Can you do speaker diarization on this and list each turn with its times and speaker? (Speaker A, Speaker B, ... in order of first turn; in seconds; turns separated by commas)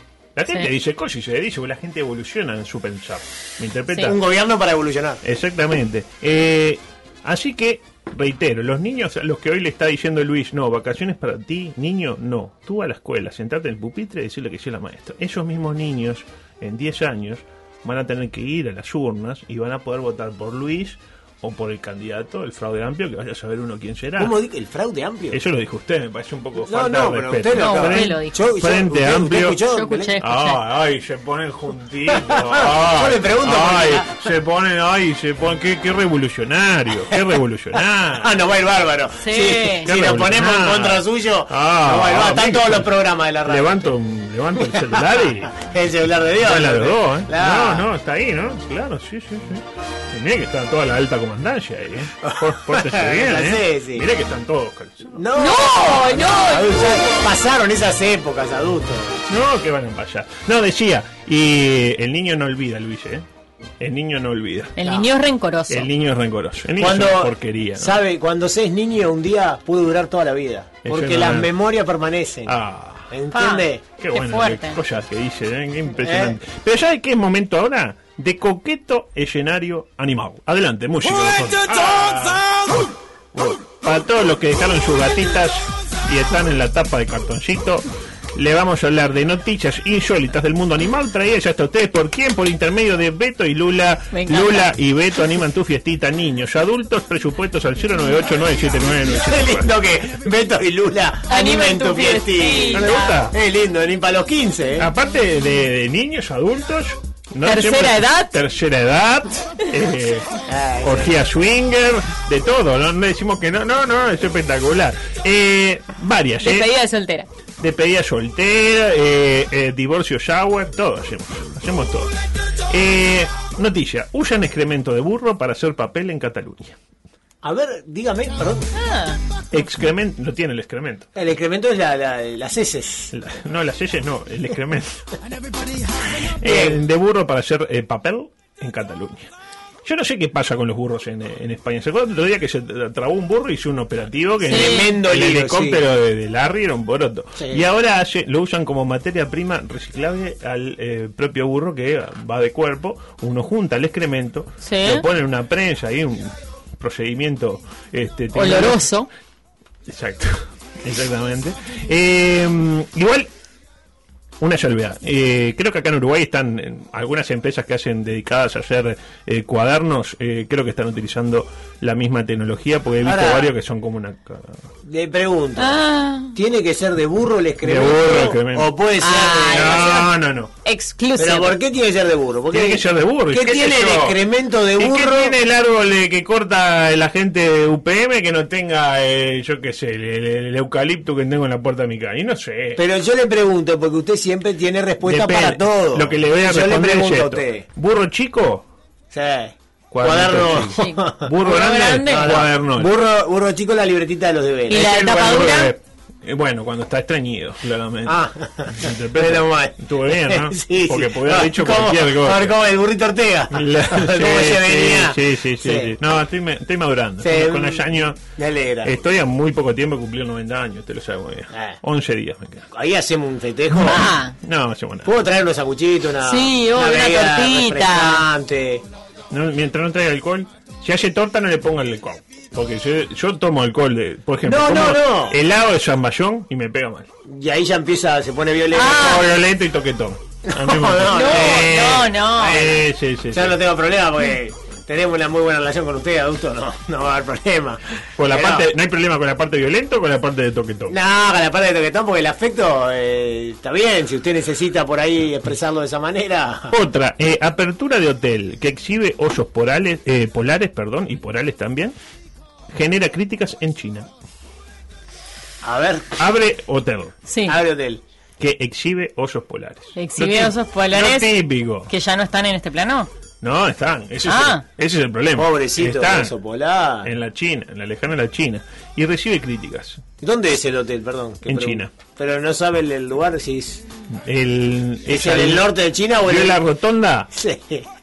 Speaker A: 0.3-4.2, Speaker B: 4.0-5.2, Speaker A: 5.2-24.3, Speaker B: 24.2-25.4, Speaker A: 25.3-29.6, Speaker B: 26.6-30.1, Speaker C: 27.5-28.5, Speaker C: 29.6-30.6, Speaker A: 30.2-38.3, Speaker B: 32.1-34.1, Speaker B: 38.2-43.9, Speaker C: 39.2-39.9, Speaker A: 39.8-42.9, Speaker A: 43.4-45.5, Speaker B: 44.6-47.8, Speaker A: 46.4-55.2, Speaker B: 52.2-54.1, Speaker B: 55.1-59.1, Speaker C: 55.3-57.1, Speaker A: 59.3-63.2, Speaker A: 63.8-64.8, Speaker C: 64.8-65.9, Speaker A: 65.7-68.0, Speaker B: 66.8-72.5, Speaker A: 70.8-71.5, Speaker A: 72.5-73.1, Speaker B: 73.1-73.8, Speaker C: 73.3-74.8, Speaker A: 74.0-82.7, Speaker B: 76.0-76.3, Speaker A: 83.3-99.8, Speaker C: 94.1-94.7, Speaker B: 99.3-104.9, Speaker C: 101.3-103.2, Speaker A: 102.8-103.3, Speaker A: 104.8-110.3, Speaker C: 107.4-108.3, Speaker B: 110.5-111.1, Speaker A: 110.8-116.7, Speaker C: 116.4-117.3, Speaker A: 117.6-122.1, Speaker A: 122.7-126.8, Speaker B: 127.4-128.7, Speaker C: 128.8-129.2, Speaker A: 129.5-131.1, Speaker B: 131.1-133.1, Speaker A: 133.1-135.1, Speaker A: 136.4-139.3, Speaker B: 136.4-136.8, Speaker A: 139.8-158.8, Speaker B: 144.4-145.8, Speaker C: 144.4-144.9, Speaker B: 147.4-147.6, Speaker C: 154.6-155.0, Speaker C: 158.3-159.1, Speaker A: 159.9-163.3, Speaker A: 164.4-174.6, Speaker B: 173.0-173.5, Speaker B: 174.8-175.8, Speaker C: 175.6-176.3, Speaker B: 176.3-180.0, Speaker A: 177.6-178.7, Speaker C: 179.0-180.1, Speaker A: 179.5-180.5, Speaker C: 180.6-181.6, Speaker B: 181.2-185.3, Speaker A: 182.5-184.2, Speaker A: 184.8-192.8, Speaker B: 192.8-197.6, Speaker A: 195.0-198.7, Speaker B: 199.1-204.9, Speaker A: 199.9-202.9, Speaker C: 200.6-202.4, Speaker C: 204.7-205.7, Speaker A: 204.7-212.6, Speaker B: 208.1-215.9, Speaker A: 213.5-218.2, Speaker B: 217.2-218.9, Speaker A: 218.8-222.7, Speaker B: 221.5-221.8, Speaker B: 222.7-224.1, Speaker C: 223.8-224.3, Speaker A: 223.9-225.1, Speaker B: 225.0-228.8, Speaker C: 226.2-228.2, Speaker A: 229.3-237.1, Speaker B: 234.4-235.4, Speaker B: 237.2-239.2, Speaker C: 238.8-239.2, Speaker A: 238.8-243.6, Speaker B: 240.5-248.7, Speaker C: 241.1-242.7, Speaker A: 248.2-251.0, Speaker B: 250.9-256.8, Speaker A: 256.7-261.9, Speaker A: 262.7-264.1, Speaker B: 265.6-266.1, Speaker A: 266.2-267.1, Speaker C: 267.3-267.6, Speaker B: 267.5-268.0, Speaker A: 268.4-271.9, Speaker C: 270.0-271.4, Speaker C: 271.9-273.1, Speaker A: 273.4-276.3, Speaker C: 274.2-274.6, Speaker B: 275.4-277.1, Speaker A: 277.0-280.0, Speaker B: 280.2-283.8, Speaker A: 281.5-281.9, Speaker A: 284.1-287.3, Speaker B: 285.1-286.6, Speaker B: 287.3-287.9